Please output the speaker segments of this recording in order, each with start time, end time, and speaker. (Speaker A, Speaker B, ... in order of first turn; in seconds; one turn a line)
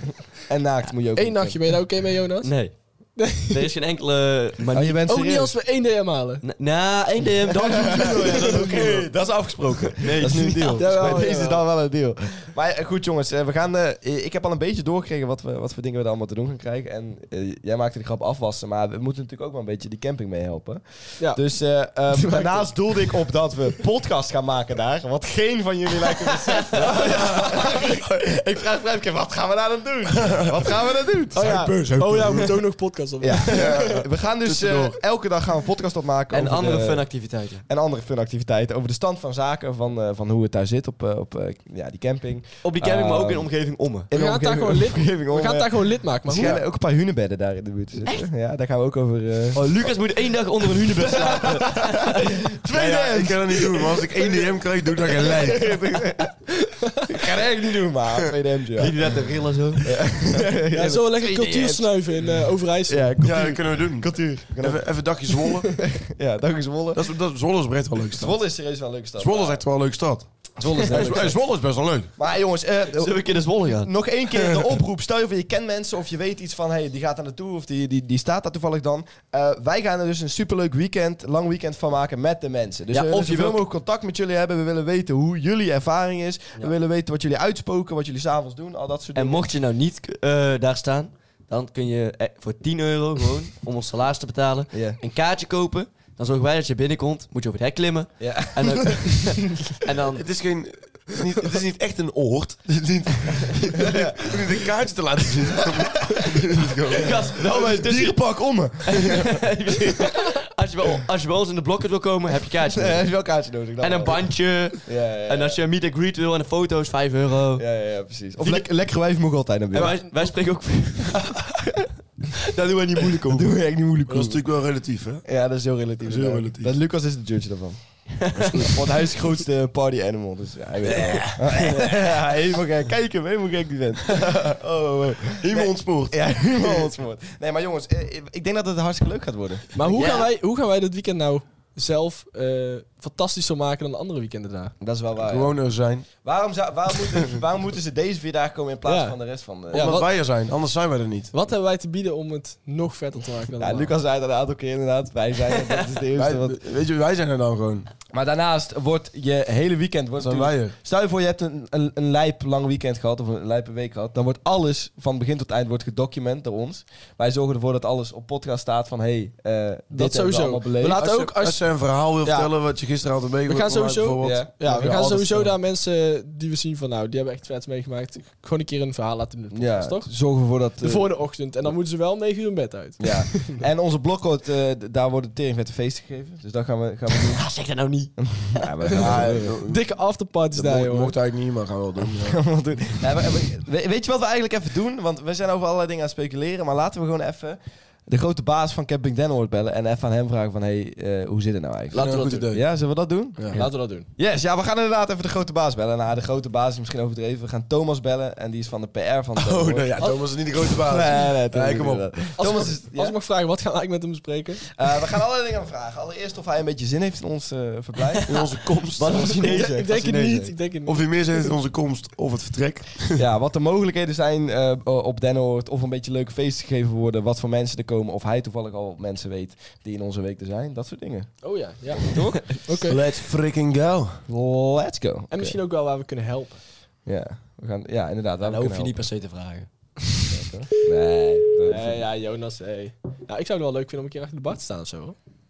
Speaker A: 0.5-1.7
Speaker B: 1.1-2.6
Speaker C: 2.4-2.8
Speaker B: 3.2-3.6
Speaker C: 3.4-5.0
Speaker A: 4.7-5.5
Speaker B: 5.0-6.4
Speaker C: 6.4-8.6
Speaker A: 7.5-31.5
Speaker B: 8.2-9.1
Speaker C: 10.0-11.2
Speaker B: 10.7-11.6
Speaker B: 22.1-22.7
Speaker B: 31.3-34.0
Speaker D: 31.4-32.6
Speaker A: 33.2-37.1
Speaker D: 33.5-35.0
Speaker C: 36.3-37.6
Speaker A: 37.7-43.5
Speaker C: 42.6-44.1
Speaker A: 44.1-49.7
Speaker B: 44.1-46.6
Speaker C: 49.5-52.4
Speaker A: 51.0-54.1
Speaker D: 52.7-55.7
Speaker A: 55.2-56.3
Speaker A: 57.0-59.0
Speaker C: 58.8-60.1
Speaker A: 59.8-61.9
Speaker B: 60.7-63.2
Speaker A: 62.9-64.8
Speaker D: 63.2-65.7
Speaker A: 65.8-67.1
Speaker D: 66.9-68.3
Speaker A: 68.1-69.6
Speaker D: 69.2-70.3
Speaker A: 70.6-71.4
Speaker D: 70.8-72.1
Speaker A: 72.2-89.5
Speaker C: 72.9-73.9
Speaker C: 82.9-83.6
Speaker C: 89.1-100.2
Speaker A: 94.7-95.0
Speaker A: 98.2-99.0
Speaker D: 100.1-107.4
Speaker A: 103.8-104.3
Speaker A: 105.8-106.4
Speaker C: 107.0-113.2
Speaker A: 107.5-109.1
Speaker A: 112.7-115.6
Speaker C: 113.8-117.7
Speaker A: 117.6-120.0
Speaker C: 118.4-118.7
Speaker C: 119.7-121.4
Speaker C: 122.3-123.5
Speaker A: 123.2-124.4
Speaker D: 124.1-125.2
Speaker A: 125.2-127.8
Speaker D: 126.0-126.7
Speaker C: 128.2-128.7
Speaker D: 128.3-128.7
Speaker A: 128.6-139.7
Speaker D: 130.9-131.4
Speaker C: 130.9-131.7
Speaker D: 135.4-136.9
Speaker B: 139.8-144.7
Speaker C: 139.9-140.3
Speaker A: 144.8-145.5
Speaker D: 145.2-146.1
Speaker A: 146.1-149.9
Speaker B: 148.8-149.2
Speaker D: 149.7-151.3
Speaker B: 149.7-150.1
Speaker B: 151.3-153.9
Speaker A: 153.6-156.6
Speaker C: 155.5-155.8
Speaker D: 156.1-157.9
Speaker A: 158.1-171.3
Speaker D: 160.2-160.8
Speaker B: 169.9-171.7
Speaker D: 171.0-175.5
Speaker B: 173.4-180.2
Speaker A: 174.2-174.6
Speaker A: 179.5-181.1
Speaker B: 180.8-183.6
Speaker A: 183.0-187.4
Speaker C: 187.1-188.6
Speaker A: 188.3-189.5
Speaker D: 188.9-189.9
Speaker B: 189.6-191.2
Speaker D: 190.5-192.4
Speaker A: 192.2-203.6
Speaker D: 201.9-202.6
Speaker B: 201.9-202.5
Speaker B: 203.5-204.1
Speaker A: 204.2-210.0
Speaker D: 209.4-212.3
Speaker A: 210.6-213.1
Speaker B: 212.4-214.6
Speaker A: 214.8-218.3
Speaker C: 218.1-220.5
Speaker D: 218.3-219.3
Speaker B: 219.1-221.5
Speaker D: 220.8-223.2
Speaker A: 223.1-231.3
Speaker B: 231.4-233.0
Speaker A: 231.9-232.4
Speaker D: 232.7-234.2
Speaker A: 234.3-235.6
Speaker B: 235.3-236.6
Speaker A: 237.1-239.0
Speaker C: 238.4-239.7
Speaker A: 240.3-242.0
Speaker B: 241.6-245.2